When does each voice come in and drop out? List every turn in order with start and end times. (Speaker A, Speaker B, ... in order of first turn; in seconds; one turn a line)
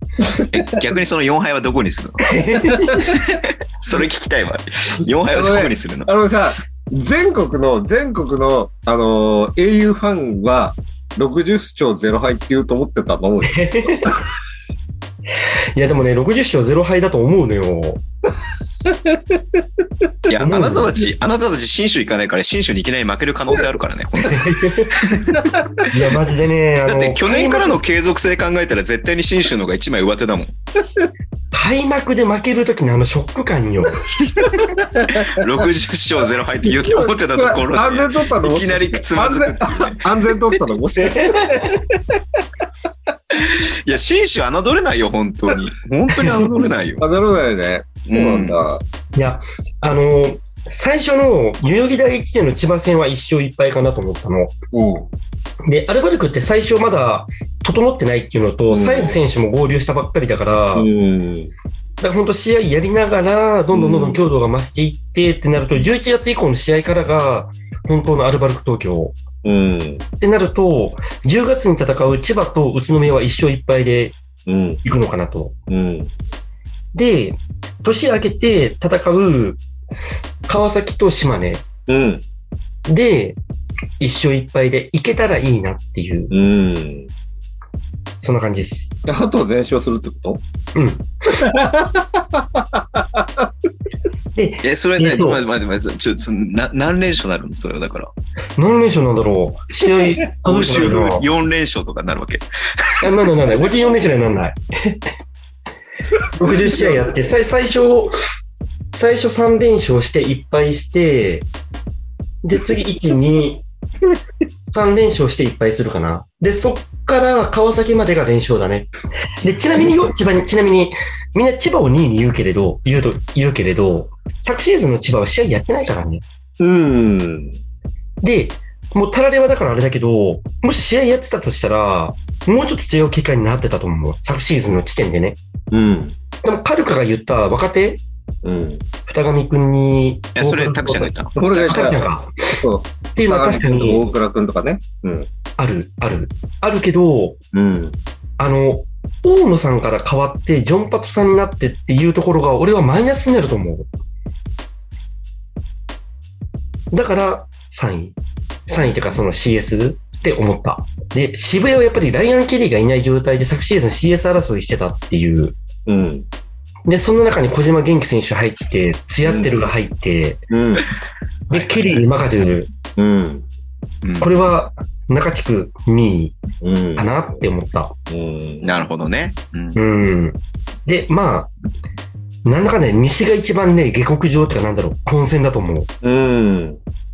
Speaker A: 0.5-2.3
Speaker B: 2.2-3.1
Speaker A: 3.0-6.1
Speaker C: 5.3-14.2
Speaker B: 13.5-14.2
Speaker B: 15.8-18.0
Speaker C: 18.9-19.6
Speaker A: 20.3-25.4
Speaker B: 20.4-21.0
Speaker B: 24.2-25.1
Speaker C: 25.4-25.7
Speaker B: 25.9-27.8
Speaker A: 26.9-30.5
Speaker B: 31.5-34.1
Speaker C: 34.6-35.5
Speaker A: 35.1-40.1
Speaker C: 36.6-42.2
Speaker B: 41.0-41.8
Speaker A: 43.3-47.0
Speaker B: 46.2-46.5
Speaker C: 47.0-48.8
Speaker A: 48.1-48.6
Speaker B: 49.1-54.6
Speaker C: 54.7-55.1
Speaker B: 55.6-60.9
Speaker C: 58.7-59.2
Speaker C: 60.8-61.5
Speaker B: 62.0-69.2
Speaker C: 63.7-64.2
Speaker C: 69.4-70.0
Speaker B: 70.2-74.2
Speaker C: 74.5-74.8
Speaker B: 74.8-75.5
Speaker C: 75.7-76.1
Speaker B: 76.9-79.6
Speaker B: 80.5-81.7
Speaker C: 81.9-82.2
Speaker B: 82.9-83.4
Speaker B: 84.0-86.3
Speaker C: 86.3-87.1
Speaker B: 88.2-88.9
Speaker C: 89.0-90.4
Speaker B: 90.8-91.1
Speaker C: 91.3-93.5
Speaker B: 94.3-95.4
Speaker A: 94.6-98.1
Speaker B: 98.6-101.3
Speaker A: 100.2-103.1
Speaker B: 103.0-105.0
Speaker B: 106.3-108.1
Speaker C: 106.5-107.2
Speaker B: 108.9-111.5
Speaker B: 112.4-113.6
Speaker B: 114.7-118.9
Speaker B: 119.4-126.2
Speaker C: 126.6-127.6
Speaker B: 128.2-135.4
Speaker C: 135.7-136.2
Speaker B: 136.4-138.0
Speaker C: 138.4-138.8
Speaker B: 139.1-141.1
Speaker A: 140.4-142.0
Speaker C: 141.4-142.0
Speaker B: 141.7-142.6
Speaker C: 142.6-145.3
Speaker B: 143.1-144.1
Speaker B: 145.6-147.4
Speaker C: 147.5-148.0
Speaker B: 148.4-153.9
Speaker B: 156.9-158.2
Speaker B: 158.7-165.6
Speaker C: 165.9-166.3
Speaker B: 166.9-170.5
Speaker C: 169.2-169.5
Speaker C: 170.5-170.9
Speaker B: 171.5-172.7
Speaker C: 173.0-173.5
Speaker A: 174.0-174.3
Speaker B: 174.2-176.4
Speaker C: 176.6-177.1
Speaker B: 177.0-177.9
Speaker C: 178.1-178.8
Speaker A: 178.6-179.8
Speaker B: 179.8-181.5
Speaker B: 182.4-185.9
Speaker C: 186.0-186.8